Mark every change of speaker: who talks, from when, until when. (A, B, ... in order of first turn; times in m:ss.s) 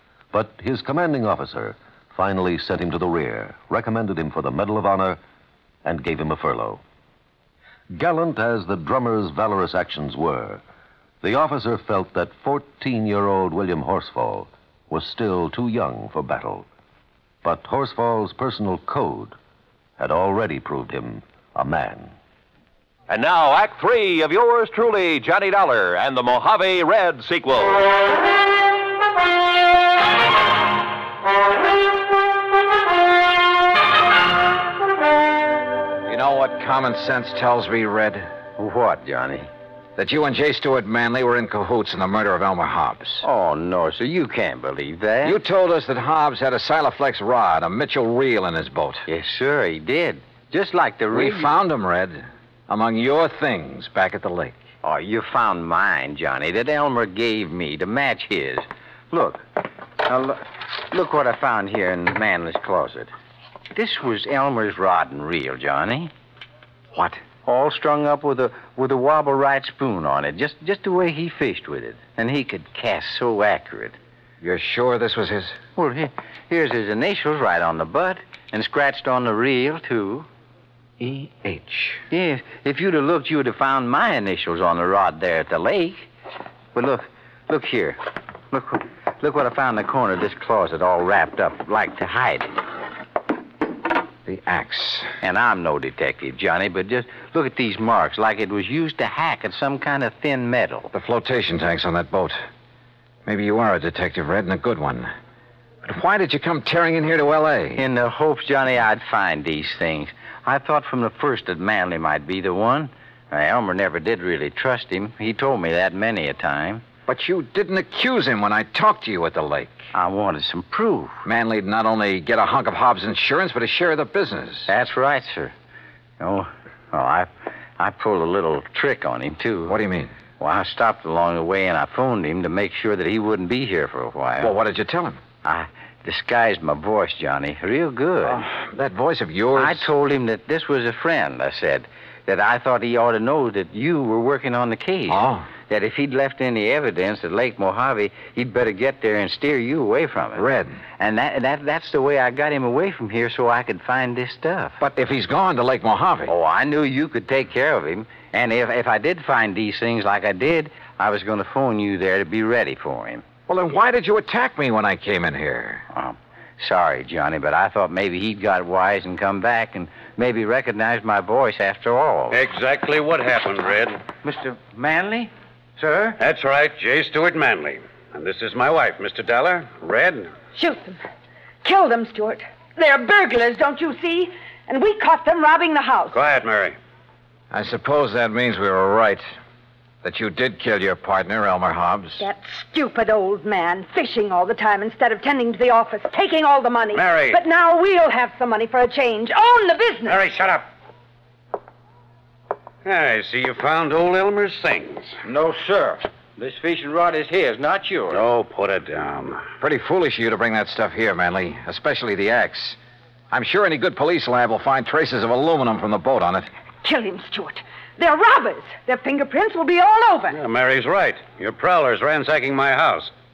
0:00.3-0:05.2 A
0:05.8-0:06.8 A
0:07.9-0:10.6 A
0:11.2-0:16.7 A
0:17.4-0:19.4 A
0:20.0-0:22.1 A
0:23.1-0:27.8 B
0:36.1-0:38.3 C
0:38.6-0:39.5 D
0:40.0-0:43.2 C
0:43.2-0:45.4 D
0:45.2-0:49.0 C
0:49.1-0:51.5 D
0:51.1-0:54.6 C
0:54.8-0:59.4 D
1:00.0-1:03.1 D
1:03.7-1:06.1 D
1:06.9-1:07.2 C
1:07.4-1:14.0 D
1:14.4-1:15.6 C
1:15.8-1:20.3 D
1:21.0-1:22.0 C
1:22.1-1:26.1 D
1:26.7-1:28.0 D
1:28.5-1:32.5 D
1:34.2-1:35.1 C
1:35.2-1:40.9 D
1:40.9-1:42.4 C
1:43.2-1:45.1 C
1:45.8-1:47.8 C
1:47.8-1:56.8 D
1:57.1-1:59.8 C
1:59.9-2:01.2 D
2:01.2-2:04.7 C
2:04.7-2:05.5 D
2:06.2-2:09.8 D
2:09.7-2:10.1 C
2:10.4-2:14.5 D
2:14.4-2:15.2 C
2:15.4-2:18.5 D
2:18.2-2:19.9 C
2:19.5-2:34.8 D
2:25.1-2:25.5 C
2:30.4-2:30.8 C
2:34.8-2:36.3 C
2:36.3-2:43.2 D
2:43.5-2:45.8 C
2:45.9-2:52.4 D
2:52.3-2:54.0 E
2:54.2-2:56.2 D
2:56.2-3:00.3 E
3:00.5-3:01.0 F
3:01.6-3:06.2 F
3:06.1-3:06.8 E
3:07.5-3:09.2 C
3:10.0-3:12.2 C
3:12.2-3:20.2 F
3:16.9-3:17.4 E
3:20.0-3:20.6 E
3:22.8-3:25.2 E
3:25.2-3:28.2 D
3:28.1-3:29.4 E
3:29.6-3:32.8 C
3:33.3-3:36.5 C
3:36.8-3:40.4 F
3:40.3-3:43.1 E